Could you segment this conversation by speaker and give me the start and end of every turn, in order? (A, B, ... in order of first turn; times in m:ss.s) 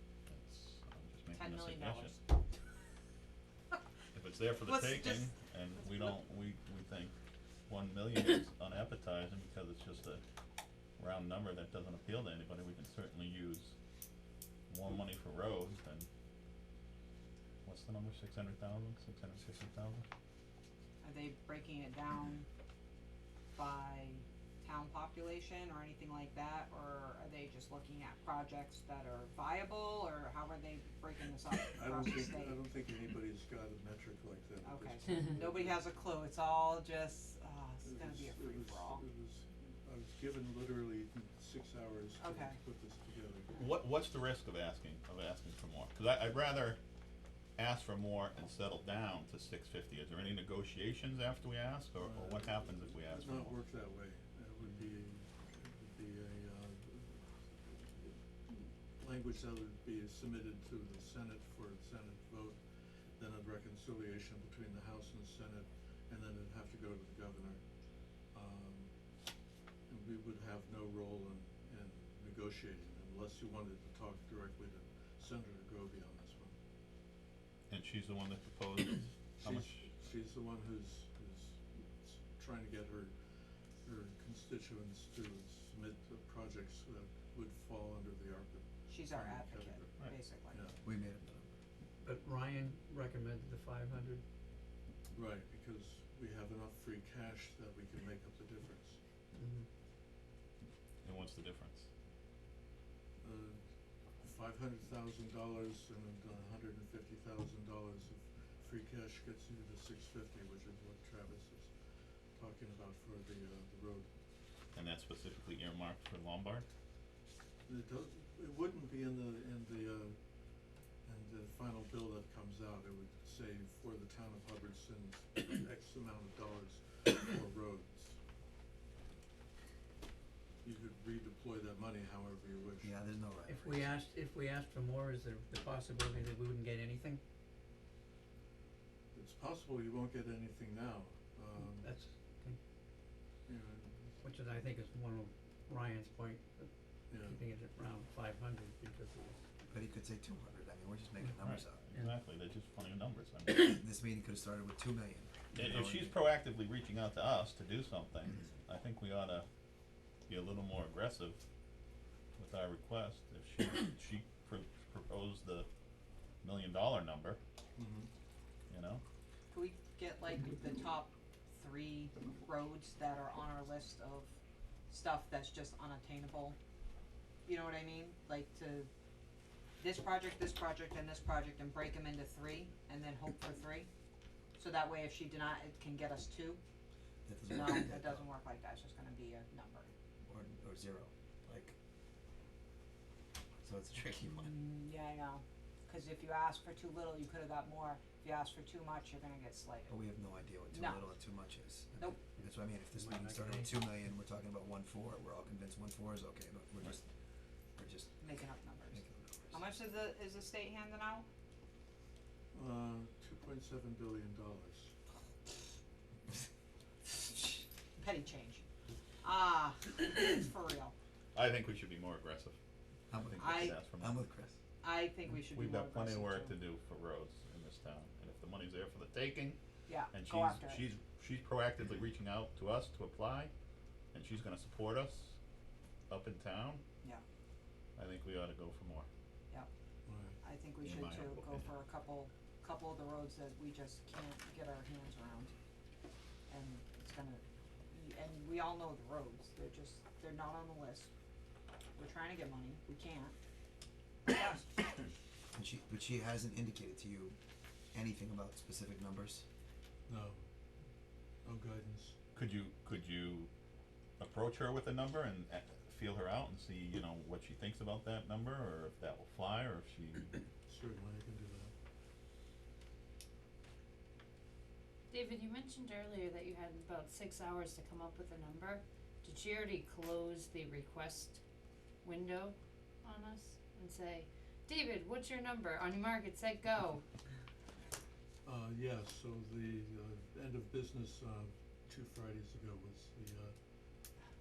0:00.3-0:02.2 A
0:01.3-0:02.2 B
0:04.1-0:07.1 A
0:04.6-0:05.3 B
0:05.8-0:06.1 B
0:07.7-0:10.2 A
0:11.0-0:13.8 A
0:14.7-0:16.1 A
0:17.6-0:20.0 A
0:21.0-0:22.5 B
0:23.5-0:32.6 B
0:31.7-0:35.8 C
0:34.6-0:39.0 B
0:37.8-0:43.5 C
0:42.2-0:42.6 B
0:43.5-0:46.8 A
0:47.6-0:53.6 A
0:52.0-1:02.6 C
1:03.2-1:07.6 C
1:08.3-1:08.9 C
1:09.9-1:16.6 C
1:17.7-1:19.9 A
1:19.4-1:23.2 C
1:23.8-1:30.0 C
1:28.9-1:30.6 B
1:30.5-1:30.8 C
1:30.8-1:31.6 D
1:32.0-1:34.2 E
1:35.1-1:39.0 C
1:39.3-1:39.7 E
1:41.0-1:41.9 A
1:43.2-1:43.6 C
1:44.2-1:51.7 C
1:52.3-1:54.1 C
1:54.7-1:56.6 A
1:57.7-2:00.2 C
2:01.0-2:08.2 C
2:10.6-2:12.9 C
2:12.8-2:14.0 D
2:13.5-2:17.2 E
2:19.1-2:21.9 C
2:21.6-2:22.6 E
2:23.5-2:24.1 C
2:24.2-2:29.4 E
2:27.1-2:27.4 C
2:29.7-2:31.8 D
2:31.2-2:32.2 E
2:31.7-2:33.8 A
2:33.6-2:36.1 D
2:35.6-2:39.5 A
2:40.3-2:41.4 A
2:42.4-2:45.7 A
2:46.4-2:47.4 A
2:47.8-2:48.1 C
2:48.7-2:49.0 A
2:49.5-2:54.4 B
2:54.9-2:56.6 B
2:57.5-2:58.9 B
2:59.8-3:03.9 B
3:04.6-3:06.6 B
3:07.2-3:08.3 D
3:07.5-3:09.9 B
3:10.2-3:11.8 D
3:13.6-3:14.6 D
3:14.4-3:20.0 B
3:19.9-3:27.1 D
3:20.7-3:21.2 B
3:22.4-3:23.8 E
3:27.8-3:28.2 D
3:28.2-3:31.3 B
3:28.9-3:29.6 D
3:32.5-3:34.9 C
3:38.0-3:38.7 B
3:39.2-3:40.9 B
3:41.3-3:42.6 A
3:43.1-3:44.6 D
3:43.2-3:44.2 A
3:43.4-3:43.8 B
3:44.8-3:46.6 B
3:45.5-3:49.6 A
3:49.9-3:50.8 B
3:50.1-3:53.5 A
3:54.1-3:55.4 A
3:56.1-3:56.8 A
3:58.0-3:59.1 A
4:00.1-4:00.4 C
4:00.4-4:05.5 B
4:00.8-4:01.7 A
4:06.5-4:11.1 B
4:12.0-4:13.3 B
4:14.3-4:14.8 B
4:15.5-4:17.4 D
4:17.9-4:19.4 D
4:20.1-4:20.4 C
4:21.4-4:22.2 C
4:22.3-4:23.5 A
4:24.2-4:30.3 A
4:30.7-4:31.7 C
4:35.1-4:41.4 F
4:42.0-4:47.0 F
4:48.4-4:53.5 C